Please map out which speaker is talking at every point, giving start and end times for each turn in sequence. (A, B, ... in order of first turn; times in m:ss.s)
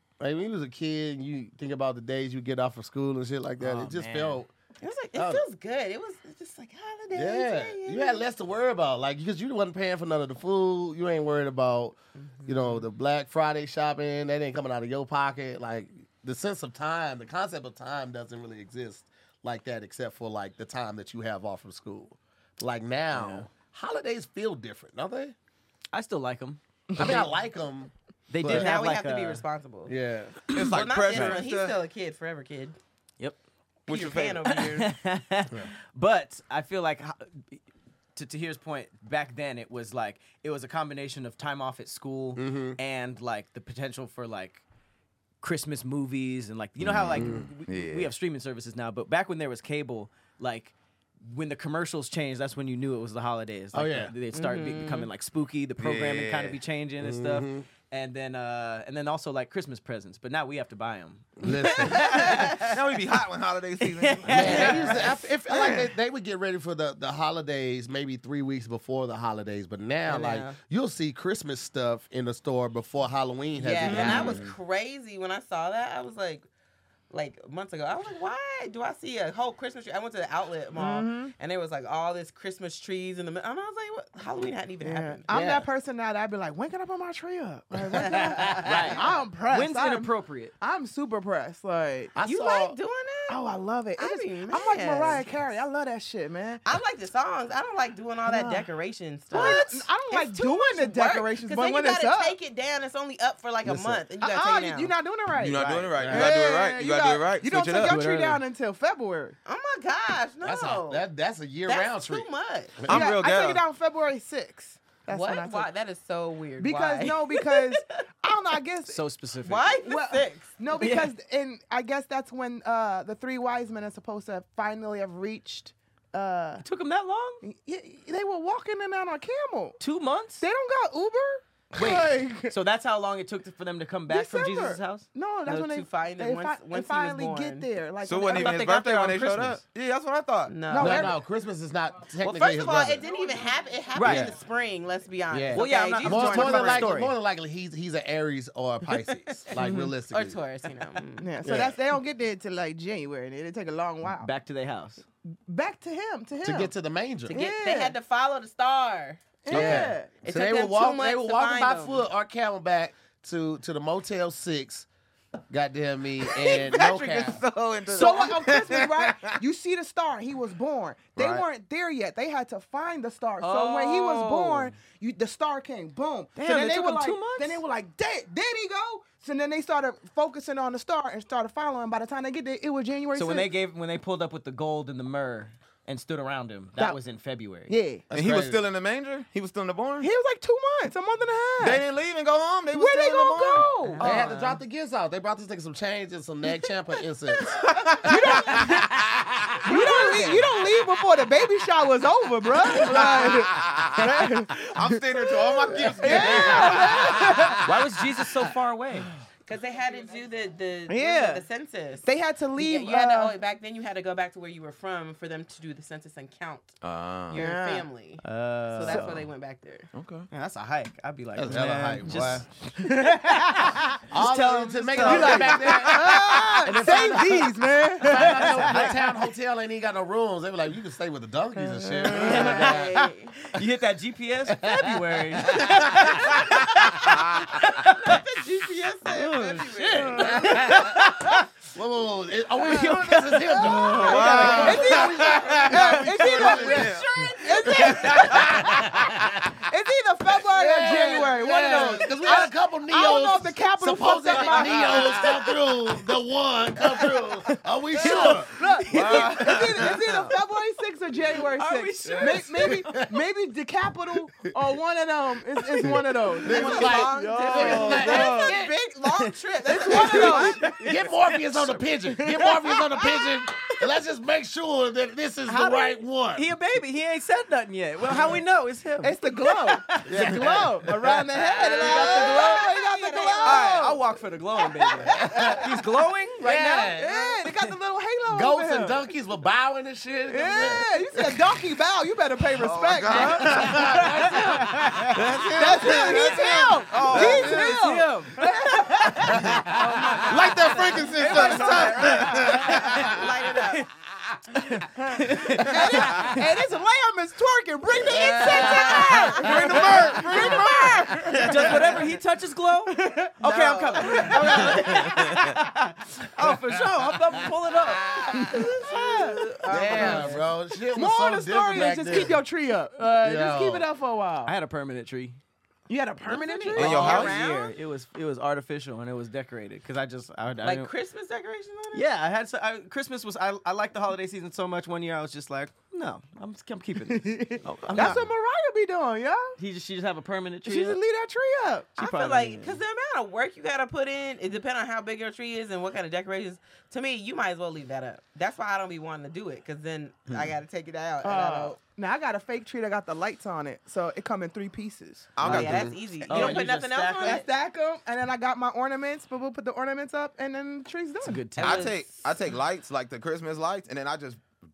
0:00.2-0:04.5 A
0:03.6-0:04.4 B
0:04.8-0:08.2 C
0:05.2-0:05.4 A
0:07.1-0:25.3 A
0:12.2-0:12.8 C
0:23.1-0:23.5 B
0:25.9-0:27.3 B
0:27.0-0:28.7 A
0:28.3-0:29.4 B
0:28.4-0:29.9 C
0:29.9-0:30.4 A
0:30.5-0:31.4 B
0:30.5-0:31.8 D
0:30.5-0:32.8 C
0:33.9-0:34.4 D
0:33.9-0:34.9 C
0:34.4-0:37.6 B
0:38.2-0:44.6 B
0:42.3-0:42.8 A
0:45.4-1:03.0 B
0:46.8-0:48.1 D
0:47.2-0:47.4 A
0:53.7-0:54.1 A
0:54.3-0:55.1 C
0:55.8-0:56.6 D
0:57.0-0:57.7 A
1:01.4-1:02.0 A
1:01.9-1:05.9 D
1:03.8-1:05.2 B
1:04.3-1:14.4 A
1:10.0-1:10.6 C
1:13.6-1:16.5 C
1:13.8-1:14.2 B
1:13.9-1:14.5 D
1:17.1-1:25.2 C
1:20.8-1:21.3 E
1:24.8-1:32.1 E
1:25.3-1:25.7 A
1:27.9-1:29.0 A
1:28.6-1:30.5 B
1:32.1-1:32.8 A
1:32.2-1:33.4 C
1:33.3-1:36.6 E
1:34.0-1:35.4 C
1:36.6-1:44.9 C
1:38.2-1:38.6 E
1:39.3-1:42.3 E
1:39.3-1:39.6 B
1:43.6-1:44.0 A
1:44.2-1:49.3 E
1:45.3-1:48.0 D
1:45.9-1:46.3 A
1:47.8-1:48.4 B
1:49.4-1:51.0 C
1:50.4-1:52.3 A
1:51.7-1:52.8 C
1:52.8-1:53.6 D
1:52.9-1:55.7 E
1:55.1-1:57.9 C
1:56.6-1:59.0 E
1:58.8-1:59.7 B
1:59.4-2:00.6 C
1:59.7-2:06.6 E
2:00.7-2:01.1 B
2:06.6-2:07.4 B
2:07.4-2:09.8 E
2:09.8-2:10.4 B
2:10.4-2:12.5 E
2:11.7-2:15.1 B
2:14.1-2:18.6 E
2:15.4-2:17.7 C
2:18.0-2:20.6 D
2:18.3-2:19.6 B
2:20.5-2:21.2 C
2:20.7-2:21.1 E
2:20.7-2:23.1 A
2:22.2-2:26.9 C
2:23.9-2:24.3 B
2:24.0-2:24.3 A
2:25.3-2:30.4 A
2:25.5-2:27.1 B
2:28.9-2:29.2 C
2:29.6-2:29.9 E
2:30.1-2:31.3 C
2:31.2-2:34.3 E
2:31.4-2:31.7 A
2:34.0-2:35.0 B
2:35.5-2:36.7 E
2:36.4-2:37.4 A
2:37.3-2:42.0 C
2:37.3-2:37.9 E
2:39.4-2:40.1 E
2:39.5-2:44.9 A
2:39.6-2:39.8 D
2:45.5-2:47.4 A
2:46.3-2:49.4 D
2:47.9-2:48.4 B
2:47.9-3:03.5 E
2:51.1-2:51.4 D
2:53.4-2:54.7 B
2:56.4-2:57.6 B
3:03.1-3:07.7 B
3:07.7-3:08.0 E
3:08.1-3:08.6 A
3:08.1-3:10.1 D
3:10.0-3:11.8 E
3:11.6-3:14.0 D
3:12.7-3:14.2 E
3:13.8-3:14.6 B
3:14.0-3:17.5 A
3:17.5-3:18.7 D
3:18.0-3:19.0 E
3:19.6-3:27.7 E
3:19.7-3:20.5 B
3:20.1-3:20.4 D
3:22.7-3:27.5 D
3:27.6-3:29.1 B
3:29.4-3:36.8 C
3:30.9-3:31.4 E
3:32.0-3:33.3 E
3:36.8-3:37.4 D
3:37.3-3:39.9 C
3:37.3-3:37.9 E
3:38.2-3:39.3 B
3:39.9-3:40.3 D
3:40.3-3:46.1 B
3:41.4-3:42.4 A
3:42.8-3:43.8 E
3:44.1-3:53.0 A
3:45.0-3:48.9 E
3:46.8-3:47.2 B
3:48.2-3:49.1 B
3:51.6-3:53.0 E
3:52.1-3:53.4 C
3:53.5-3:57.1 B
3:54.5-3:55.6 A
3:55.5-3:57.6 D
3:57.7-4:00.7 C
3:57.7-3:58.1 B
3:59.1-4:01.4 B
3:59.8-4:00.9 E
4:00.2-4:07.0 A
4:02.7-4:15.4 E
4:03.9-4:08.6 D
4:07.7-4:09.6 A
4:10.5-4:18.5 A
4:14.3-4:15.1 D
4:17.9-4:27.0 E
4:18.0-4:18.4 B
4:18.9-4:20.4 D
4:19.1-4:19.4 B
4:21.4-4:23.1 B
4:22.0-4:23.0 D
4:25.9-4:28.8 A
4:26.4-4:30.8 C
4:26.7-4:28.6 D
4:29.0-4:31.8 B
4:29.1-4:30.7 E
4:30.1-4:36.5 A
4:32.3-4:32.6 E
4:36.3-4:42.7 B
4:39.0-4:44.0 E
4:40.1-4:40.4 A
4:40.1-4:40.4 D
4:41.4-4:43.8 C
4:43.4-4:46.9 B
4:45.0-4:45.7 E
4:45.2-4:45.7 A
4:46.4-4:47.4 A
4:46.4-4:49.0 E
4:48.3-4:51.4 A
4:50.3-4:54.7 E
4:52.5-4:54.1 D
4:53.2-5:03.2 B
4:53.5-4:54.8 A
4:55.1-4:57.8 D
4:55.5-5:03.2 E
4:59.4-5:00.0 A
4:59.6-5:03.3 D
4:59.8-5:03.9 C
5:05.0-5:12.0 E
5:05.1-5:06.4 B
5:08.1-5:09.9 C
5:08.2-5:08.6 B
5:08.4-5:10.8 D
5:09.6-5:10.3 B
5:11.2-5:20.3 B
5:11.3-5:11.7 D
5:12.9-5:15.3 E
5:13.8-5:14.6 C
5:17.9-5:18.7 A
5:18.3-5:20.4 E
5:18.6-5:20.4 C
5:19.7-5:22.4 A
5:20.9-5:24.5 E
5:23.2-5:23.9 A
5:24.4-5:25.4 B
5:25.9-5:27.3 E
5:26.3-5:27.8 C
5:26.7-5:30.9 B
5:26.8-5:27.3 D
5:30.6-5:32.1 C
5:31.9-5:38.2 B
5:37.0-5:39.6 E
5:37.6-5:38.2 D
5:39.6-5:41.0 B
5:40.6-5:42.0 E
5:42.0-5:42.8 B
5:42.0-5:51.8 C
5:51.2-5:55.4 E
5:55.4-5:56.1 D
5:55.4-5:57.4 C
5:55.4-5:57.4 B
5:56.3-6:01.5 E
6:01.2-6:01.9 B
6:01.6-6:02.2 C
6:01.6-6:04.4 D